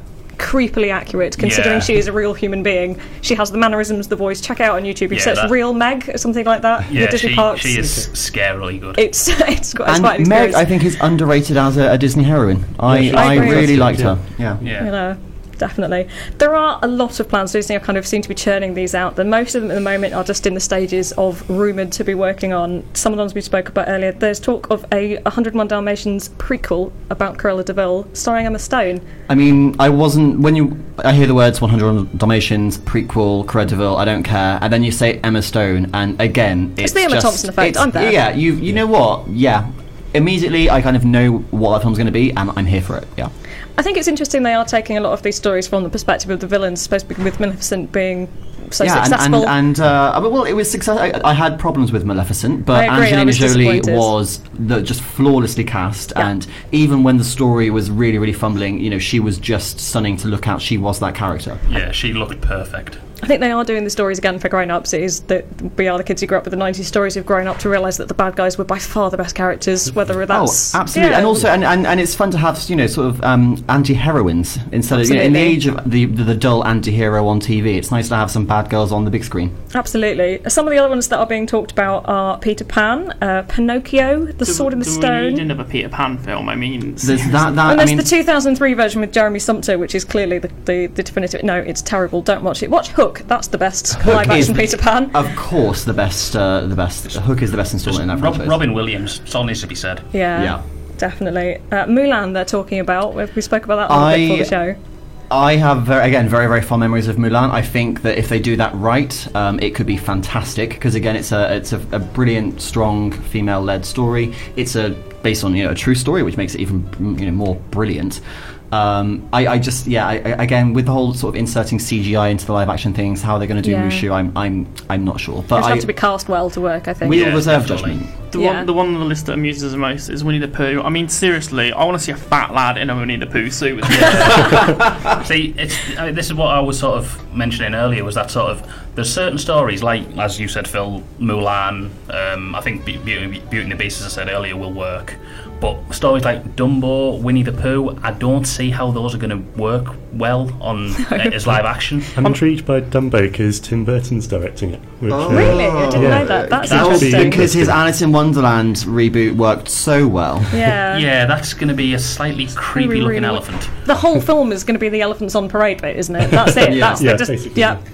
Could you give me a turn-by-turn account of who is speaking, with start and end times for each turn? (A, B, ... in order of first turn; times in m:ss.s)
0:00.4-0:08.0 A
0:01.4-0:01.9 B
0:05.1-0:05.5 B
0:06.9-0:09.0 B
0:07.8-0:08.1 C
0:09.0-0:10.7 A
0:09.9-0:14.6 D
0:12.8-0:14.6 C
0:13.1-0:14.0 A
0:14.6-0:14.9 B
0:14.7-0:29.0 A
0:29.3-0:43.3 D
0:36.8-0:38.2 A
0:43.8-0:49.6 A
0:48.8-1:01.6 D
0:52.7-0:54.1 A
1:01.7-1:03.0 B
1:03.2-1:11.4 A
1:10.3-1:19.6 D
1:14.9-1:15.6 A
1:19.7-1:25.4 A
1:24.4-1:27.5 E
1:27.0-1:28.1 D
1:27.6-1:35.2 A
1:34.0-1:38.6 D
1:37.8-1:40.1 B
1:40.1-1:44.8 A
1:40.3-1:40.6 D
1:43.9-1:44.5 D
1:45.3-1:58.2 D
1:58.7-2:05.9 D
2:03.6-2:04.1 A
2:05.5-2:07.4 A
2:07.0-2:08.1 D
2:07.1-2:08.0 B
2:08.3-2:14.6 E
2:08.3-2:08.7 A
2:13.9-2:32.3 B
2:31.0-2:31.4 A
2:32.2-2:37.9 C
2:35.1-2:40.7 D
2:35.3-2:37.5 A
2:36.7-2:37.0 B
2:40.5-2:41.0 A
2:40.9-2:43.8 B
2:42.7-2:47.8 A
2:46.2-2:47.8 C
2:46.6-2:47.2 D